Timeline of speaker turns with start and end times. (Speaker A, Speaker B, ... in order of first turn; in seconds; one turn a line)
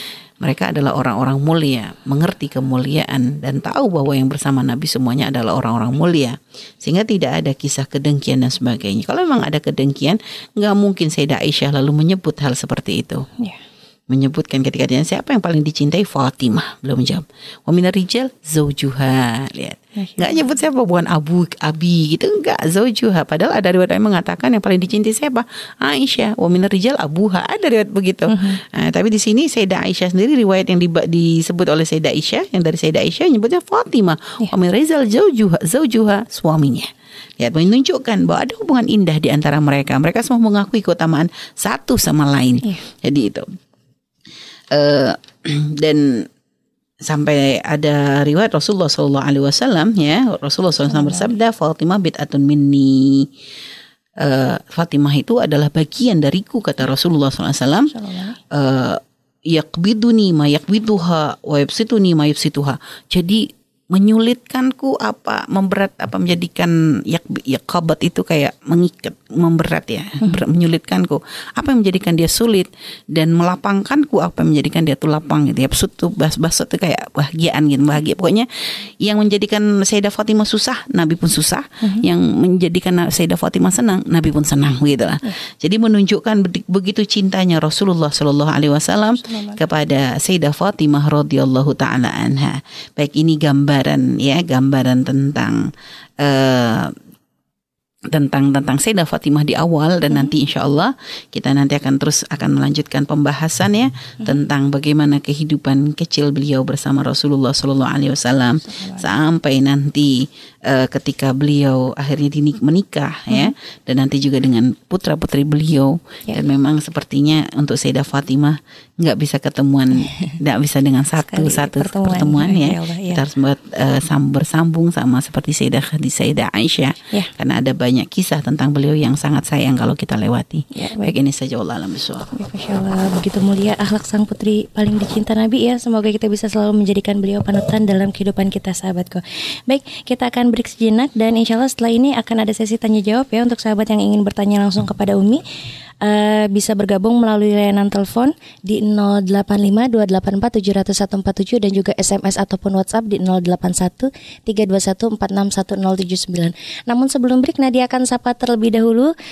Speaker A: 0.4-13.3
Speaker A: 14.1-43.5
Speaker B: 20.0-20.3
Speaker B: 28.3-28.6
Speaker A: 44.7-46.3
Speaker A: 47.0-53.3
Speaker B: 50.9-51.3
Speaker A: 54.2-57.9
Speaker B: 57.9-58.4
Speaker A: 58.5-95.7
Speaker B: 89.2-89.6
Speaker A: 96.2-96.9
Speaker A: 98.1-132.3
Speaker B: 108.6-109.0
Speaker B: 121.2-123.2
Speaker B: 130.7-131.1
Speaker B: 132.3-145.4
Speaker B: 146.0-159.1